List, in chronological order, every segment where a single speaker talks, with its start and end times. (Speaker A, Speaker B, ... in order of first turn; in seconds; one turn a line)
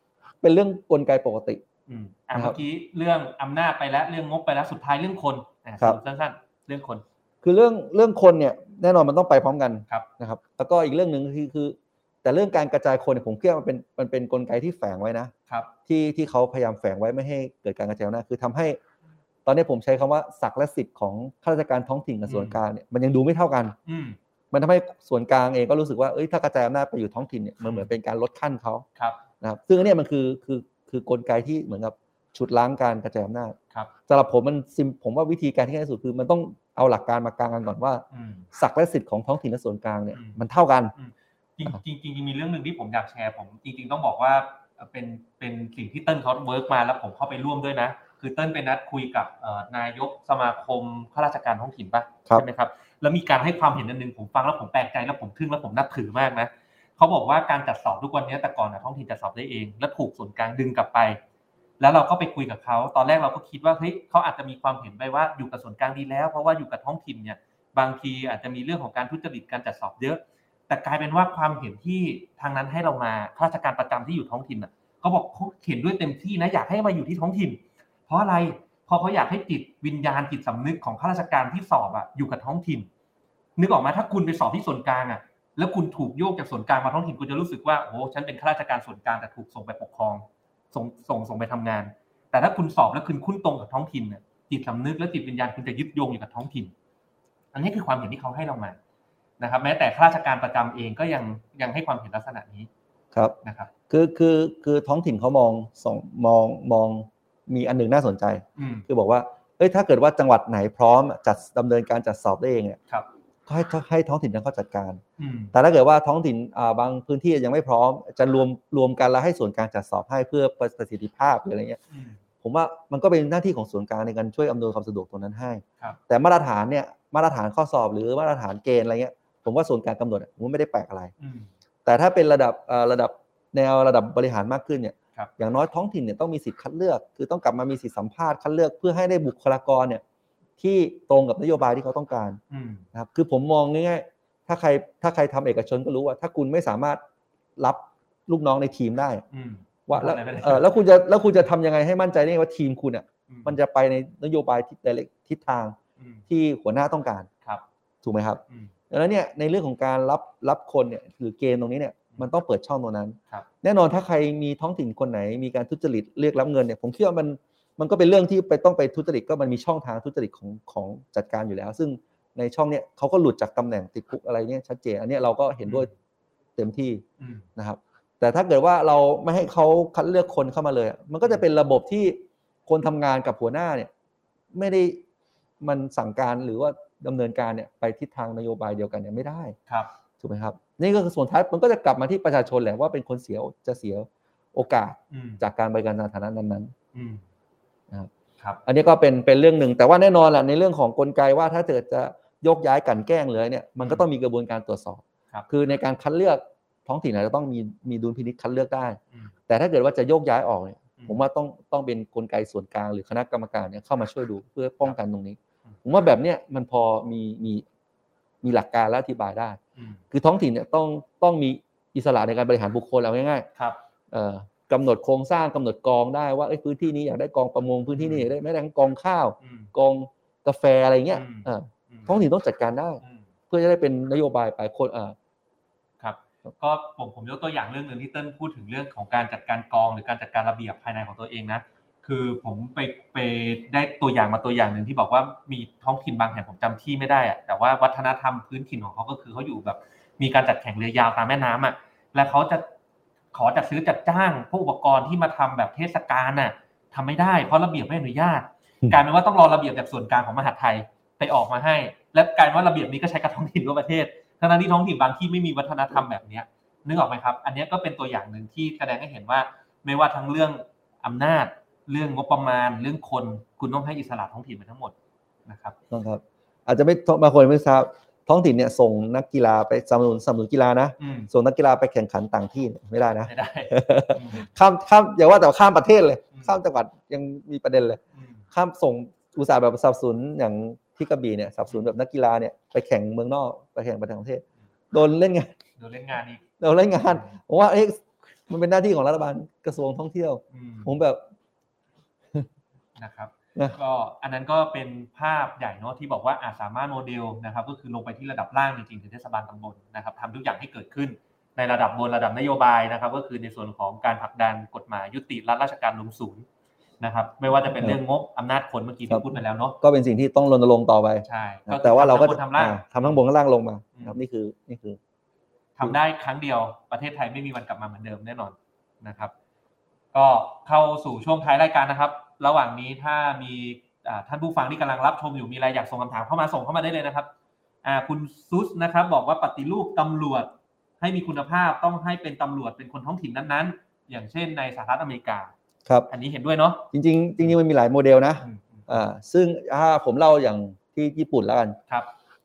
Speaker A: 0.4-1.6
Speaker B: 1.9-7.0
Speaker A: 7.4-15.3
Speaker A: 15.9-18.8
Speaker A: 19.4-23.8
Speaker B: 22.3-22.6
Speaker B: 23.9-24.2
Speaker A: 24.5-28.9
Speaker A: 29.4-33.6
Speaker A: 34.1-40.9
Speaker B: 38.1-38.5
Speaker B: 40.1-40.4
Speaker B: 41.0-61.2
Speaker B: 61.8-82.9
Speaker B: 83.6-96.7
Speaker B: 97.5-98.8
Speaker B: 99.4-102.7
Speaker B: 103.4-103.7
Speaker A: 103.9-112.8
Speaker B: 108.6-108.9
Speaker A: 113.5-115.0
Speaker B: 115.2-115.5
Speaker A: 115.5-121.8
Speaker B: 121.9-122.2
Speaker A: 122.4-131.1
Speaker B: 131.2-131.5
Speaker A: 131.8-140.0
Speaker A: 140.6-142.4
Speaker B: 142.5-142.9
Speaker A: 142.9-147.0
Speaker A: 147.6-149.2
Speaker B: 149.3-150.7
Speaker A: 149.9-155.8
Speaker B: 153.3-153.6
Speaker B: 156.0-156.2
Speaker A: 156.3-157.3
Speaker A: 158.0-175.9
Speaker B: 158.5-158.7
Speaker B: 175.7-175.9
Speaker A: 176.6-177.0
Speaker B: 177.2-177.5
Speaker A: 177.6-183.9
Speaker A: 184.5-185.0
Speaker A: 185.6-189.6
Speaker A: 190.2-196.7
Speaker B: 195.1-195.4
Speaker B: 196.9-197.2
Speaker A: 198.7-217.7
Speaker A: 218.4-219.6
Speaker B: 219.8-220.0
Speaker A: 220.1-223.5
Speaker B: 223.6-223.8
Speaker A: 224.1-235.2
Speaker B: 227.9-228.3
Speaker B: 229.4-229.7
Speaker B: 231.1-232.1
Speaker B: 233.0-233.3
Speaker B: 236.0-252.7
Speaker B: 253.3-274.9
Speaker B: 275.5-275.8
Speaker A: 275.9-288.0
Speaker B: 281.0-281.3
Speaker B: 283.2-284.5
Speaker B: 288.1-288.5
Speaker A: 288.5-295.6
Speaker B: 295.8-296.4
Speaker A: 296.6-301.2
Speaker B: 300.5-300.9
Speaker B: 303.0-316.5
Speaker B: 317.0-319.8
Speaker A: 319.1-325.0
Speaker B: 321.2-323.2
Speaker B: 325.8-329.3
Speaker B: 330.1-337.3
Speaker B: 337.8-345.5
Speaker B: 346.1-346.9
Speaker A: 346.9-351.8
Speaker B: 348.4-349.1